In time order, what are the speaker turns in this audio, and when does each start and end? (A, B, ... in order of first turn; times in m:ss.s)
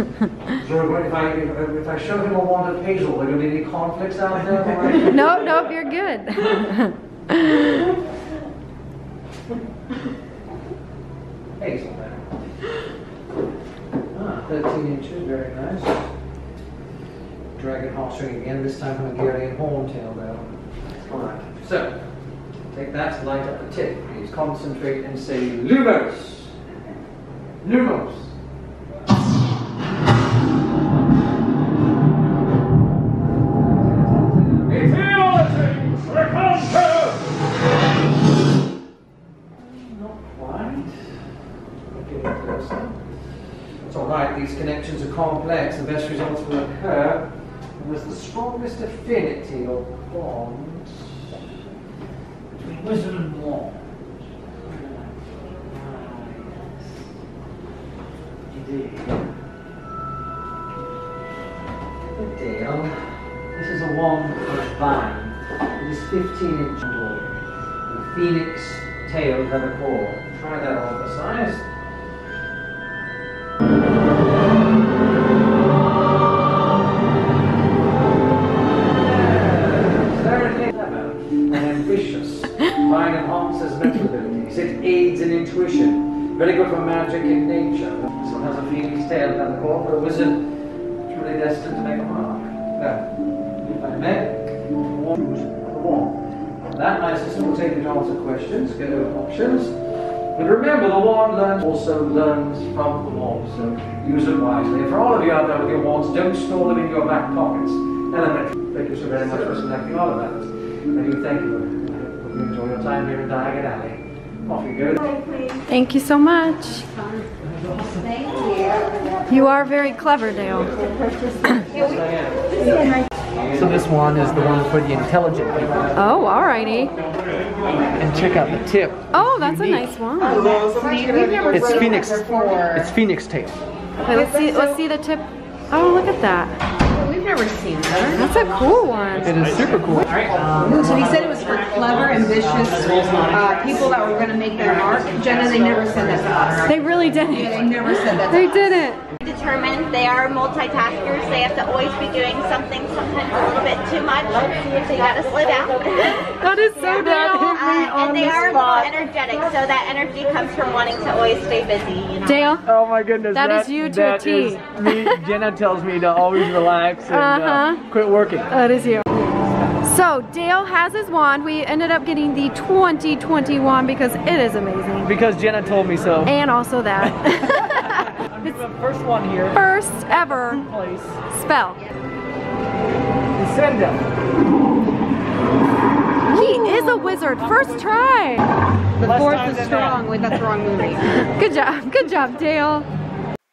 0:00.5-0:05.4 A
0:05.1-0:07.7 B
0:11.6-0:12.3 A
0:14.1-0:16.1 A
0:17.5-0:22.0 A
0:22.7-0:26.6 A
0:27.6-0:28.3 A
0:33.6-0:37.2 A
0:39.5-0:41.2 A
0:41.9-0:51.4 A
0:52.5-0:57.1 A
0:58.5-0:59.3 A
1:02.0-1:11.7 A
1:18.9-1:39.8 A
1:40.3-1:55.0 A
1:55.7-1:56.9 B
1:57.4-1:58.2 A
1:58.2-1:58.9 C
1:59.3-2:00.7 B
2:01.6-2:02.8 A
2:01.7-2:02.0 C
2:03.3-2:04.0 A
2:03.5-2:05.9 D
2:05.9-2:06.9 B
2:07.8-2:10.0 D
2:09.1-2:10.5 B
2:10.2-2:12.9 C
2:11.5-2:13.6 D
2:14.1-2:16.6 B
2:14.1-2:14.8 C
2:16.9-2:18.3 C
2:18.1-2:19.5 B
2:19.2-2:23.9 D
2:19.9-2:26.8 C
2:26.6-2:29.0 B
2:27.3-2:28.8 C
2:29.2-2:36.3 E
2:36.4-2:38.9 B
2:36.8-2:42.5 E
2:36.9-2:38.9 D
2:42.2-2:42.6 B
2:42.6-2:48.5 D
2:43.3-2:45.2 B
2:47.1-2:47.8 B
2:48.5-2:49.0 B
2:49.8-2:55.2 B
2:55.0-2:56.3 D
2:56.2-2:58.6 B
2:57.0-3:01.2 D
2:59.5-3:00.7 B
3:01.3-3:01.8 B
3:03.4-3:04.1 D
3:06.2-3:08.5 B
3:07.2-3:08.0 D
3:09.0-3:11.3 C
3:09.0-3:10.1 D
3:11.4-3:12.9 B